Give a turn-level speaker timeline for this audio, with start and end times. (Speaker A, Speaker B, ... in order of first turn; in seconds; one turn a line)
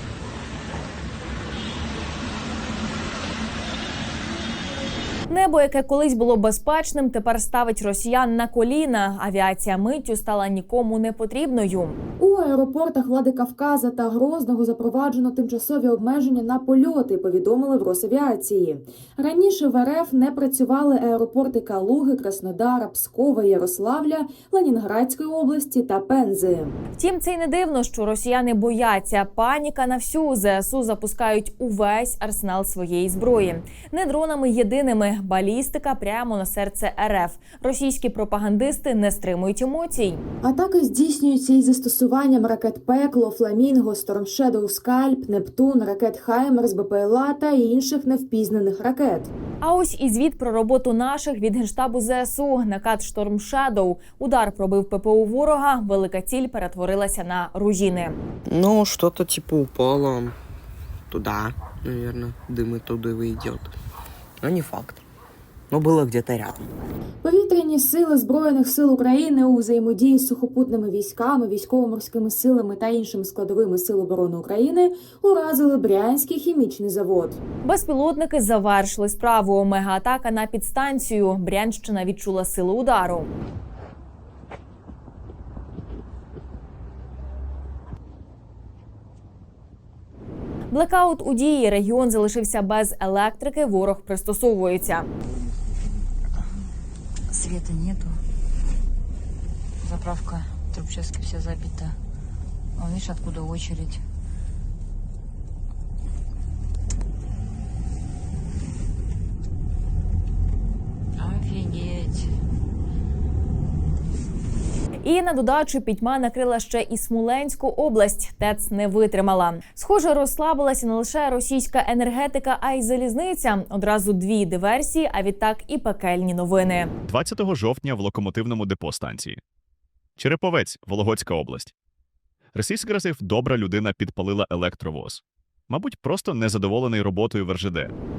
Speaker A: 5.3-12.0
Speaker B: 12.2-26.8
Speaker A: 27.0-40.2
Speaker B: 40.4-49.3
Speaker A: 49.6-58.2
Speaker C: 58.5-60.3
Speaker C: 61.1-63.7
Speaker C: 64.4-65.0
Speaker C: 65.7-66.7
Speaker B: 67.2-77.4
Speaker A: 77.6-83.3
Speaker A: 90.7-95.1
Speaker D: 97.3-98.2
Speaker D: 99.8-102.0
Speaker D: 102.8-104.0
Speaker D: 111.2-112.3
Speaker A: 115.0-126.9
Speaker E: 127.0-129.4
Speaker E: 130.2-131.7
Speaker E: 132.5-137.9